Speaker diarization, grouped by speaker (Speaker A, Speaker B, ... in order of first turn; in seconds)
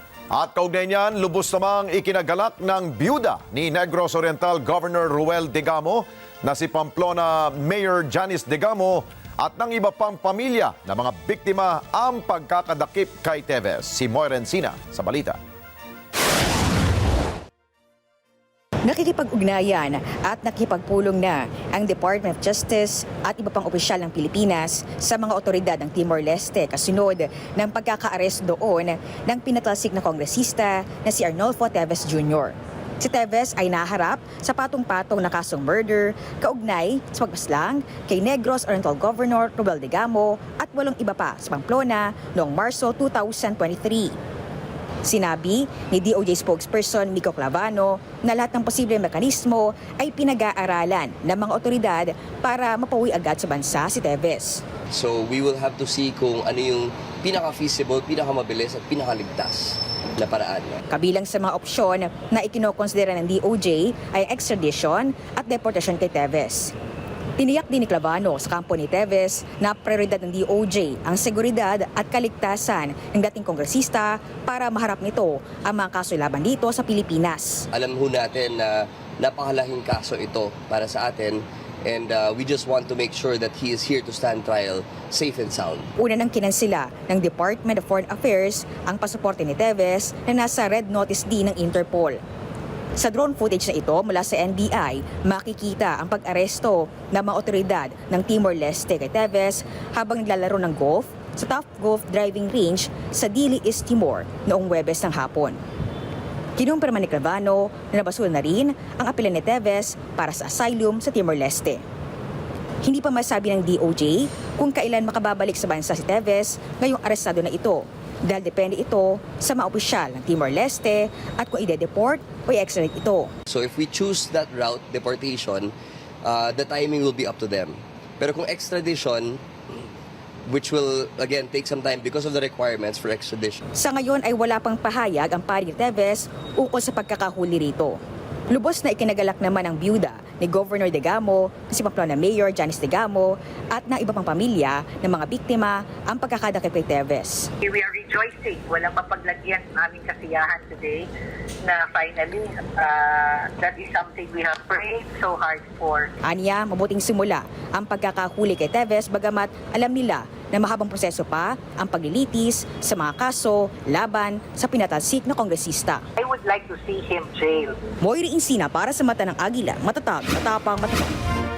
Speaker A: 0.3-15.4
Speaker B: 18.8-44.1, 45.0-54.6, 60.9-66.7, 67.4-77.7, 86.0-92.2, 93.0-105.6, 106.6-111.8, 112.8-123.3, 133.7-138.0, 138.5-147.5, 156.2-166.0, 168.0-171.2
Speaker C: 54.9-60.8, 77.7-85.9, 123.5-129.8, 130.4-133.6
Speaker D: 147.6-151.1, 151.6-156.1, 166.2-167.8